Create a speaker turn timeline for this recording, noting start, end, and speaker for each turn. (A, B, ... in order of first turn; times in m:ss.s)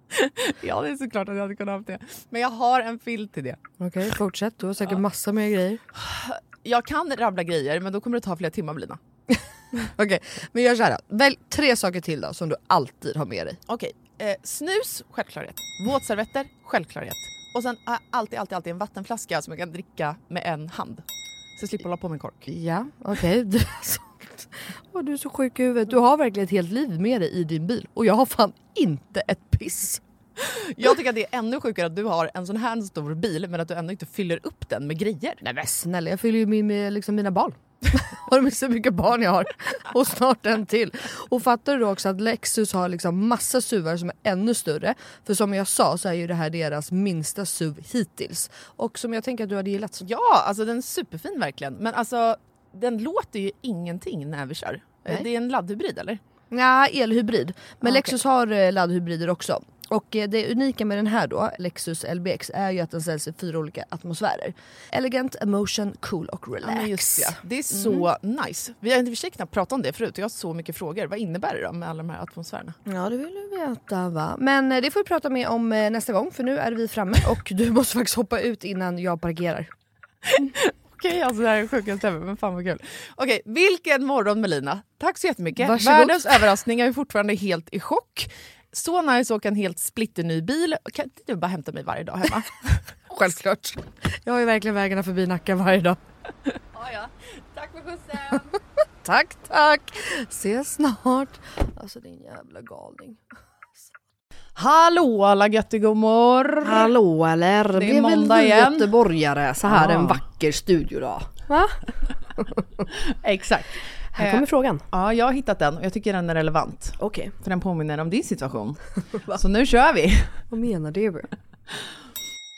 0:00.1-0:03.6 A
0:03.8-0:05.8 B
0:05.9-0:09.0 A
0:09.8-0:13.6 B
0:13.7-0:21.0 A
0:21.6-0:22.5 A
0:22.5-0:30.0 B
0:30.4-0:35.4 A
0:35.4-0:50.0 B
0:50.0-0:56.2 A
0:56.5-1:08.1 B
0:57.8-0:58.1 A
1:06.6-1:12.8 A
1:12.9-1:19.7 B
1:20.2-1:32.8 A
1:25.6-1:26.4 B
1:33.1-1:36.0 B
1:36.7-1:38.5 A
1:39.0-1:43.2 B
1:44.6-1:46.9 A
1:46.6-1:51.8 B
1:47.8-1:48.9 A
1:49.7-1:50.2 A
1:53.1-2:00.4 A
1:54.2-1:54.9 B
1:57.0-1:57.3 B
2:00.5-2:01.3 B